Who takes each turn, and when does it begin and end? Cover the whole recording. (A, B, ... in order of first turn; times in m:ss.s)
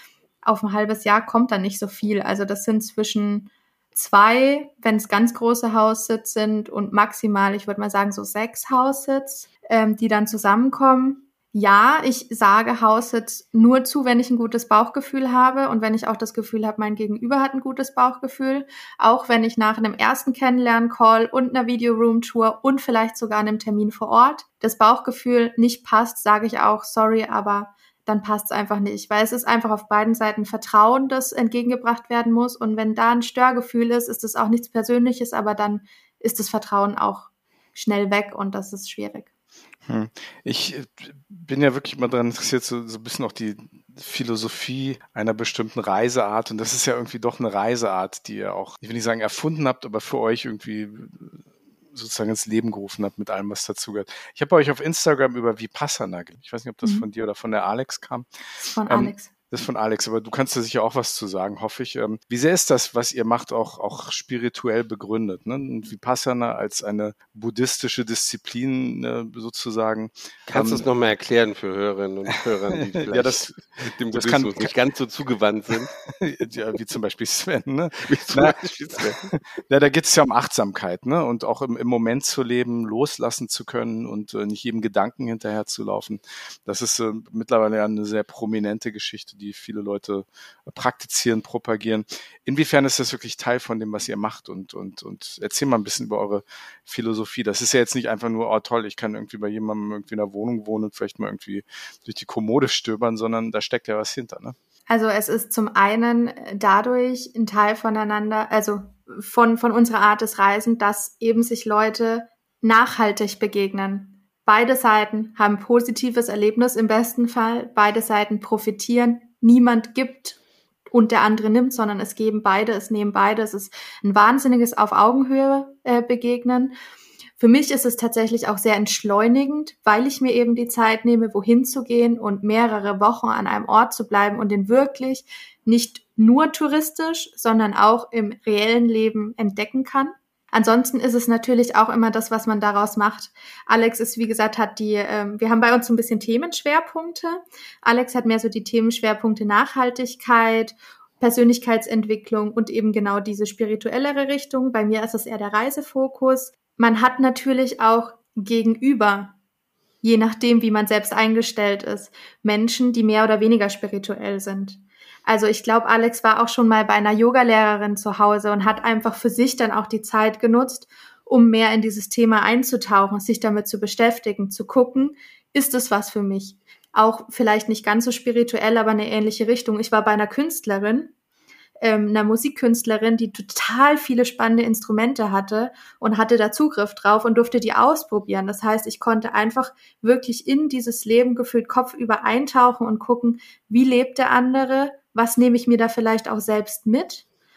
0:00.4-0:39.3 A
0:39.9-0:58.3 B
0:58.6-0:59.3 A
0:58.9-1:10.9 B
1:10.5-1:15.9 C
1:12.8-1:13.6 B
1:14.1-1:14.8 B
1:15.7-1:44.6 B
1:18.0-1:19.2 C
1:44.9-2:00.4 A
2:00.9-2:06.8 A
2:07.4-2:39.3 A
2:40.0-3:01.1 A
3:01.8-3:17.2 A